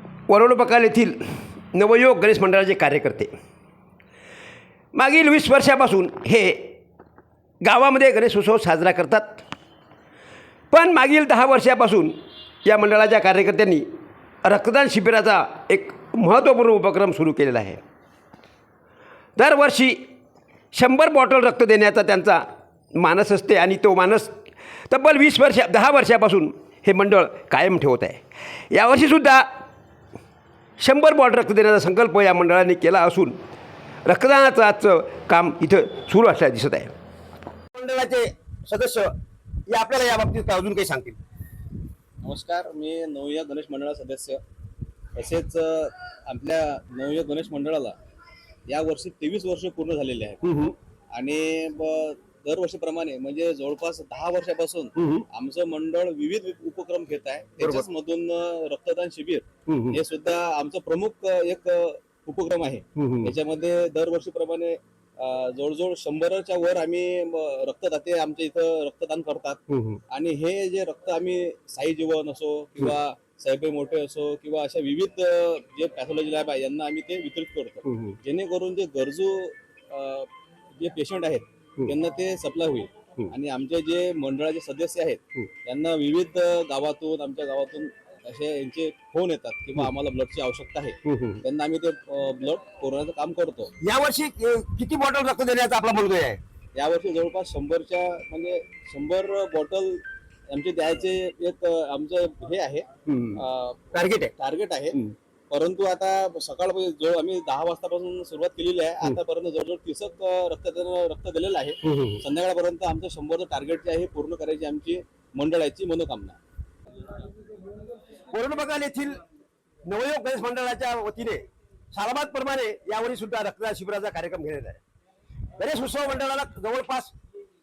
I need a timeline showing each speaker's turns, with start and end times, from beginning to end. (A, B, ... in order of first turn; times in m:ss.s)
0:00.3-0:01.2 A
0:01.7-0:03.3 A
0:04.9-0:06.7 A
0:07.6-0:09.4 A
0:10.7-0:13.8 A
0:14.4-0:17.8 A
0:19.4-0:20.0 A
0:20.7-0:22.4 A
0:22.9-0:24.3 A
0:24.9-0:29.5 A
0:30.8-0:33.3 A
0:34.0-0:36.9 A
0:37.7-0:39.1 A
0:39.7-0:41.2 A
0:42.2-0:44.4 B
0:45.1-0:48.0 B
0:48.6-0:50.4 B
0:50.4-0:50.7 A
0:51.1-1:33.7 B
0:55.0-0:55.2 A
0:59.7-1:00.0 A
1:03.0-1:03.3 A
1:09.7-1:10.0 A
1:31.1-1:31.4 A
1:33.8-1:36.4 A
1:36.7-1:56.4 B
1:43.1-1:43.4 A
1:43.9-1:44.3 A
1:51.8-1:52.2 A
1:58.3-1:59.2 A
1:59.8-2:01.4 A
2:01.9-2:04.8 A
2:05.6-2:07.1 A